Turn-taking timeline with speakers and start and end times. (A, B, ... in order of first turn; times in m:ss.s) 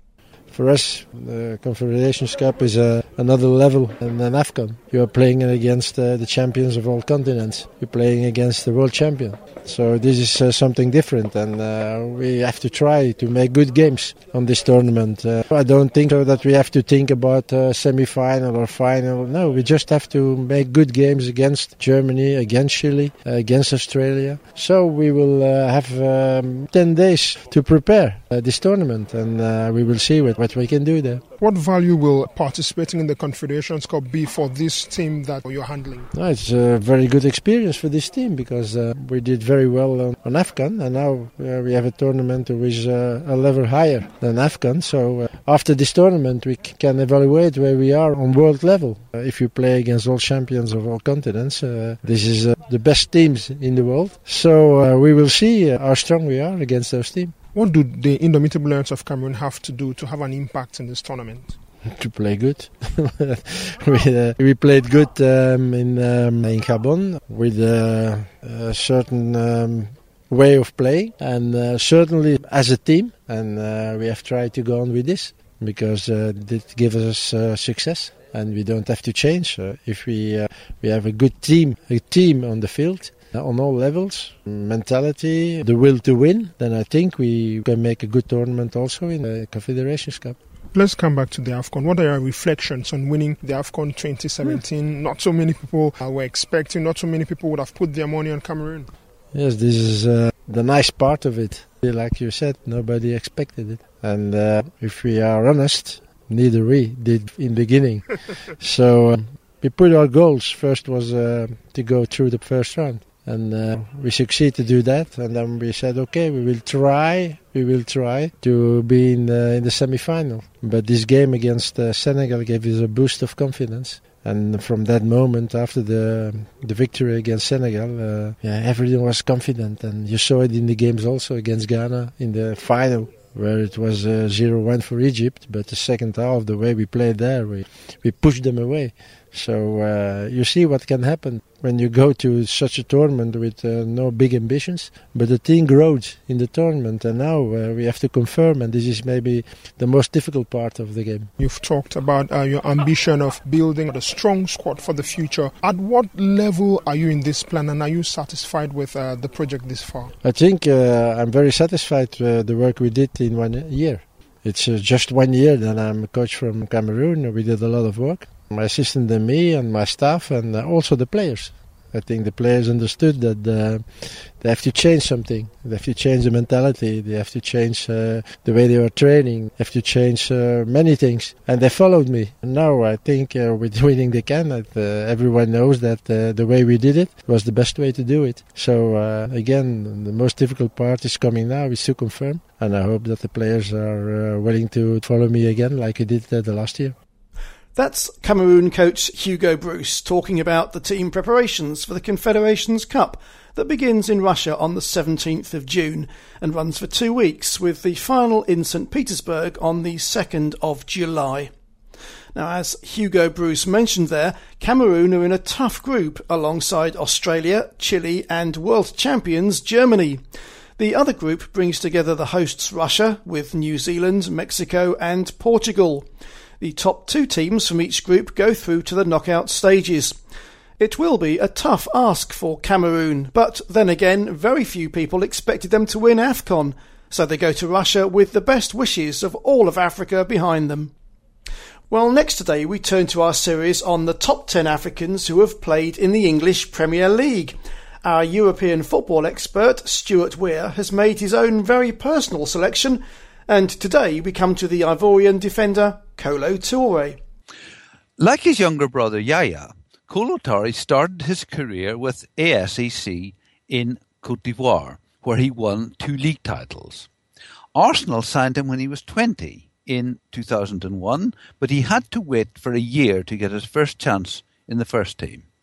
0:00.5-0:31.2 A
0:31.4-0:36.1 B
0:36.1-0:57.3 A
0:57.5-1:01.5 B
1:01.8-1:30.4 A
1:30.7-1:38.9 B
1:39.3-2:31.3 A
2:31.4-2:40.1 B
2:40.2-3:16.9 A
3:17.7-3:31.5 C
3:32.3-3:40.2 C
3:40.8-3:46.0 C
3:46.6-3:50.1 C
3:50.8-4:00.9 C
4:01.9-4:17.2 C
4:18.2-4:27.1 D
4:27.7-4:35.4 D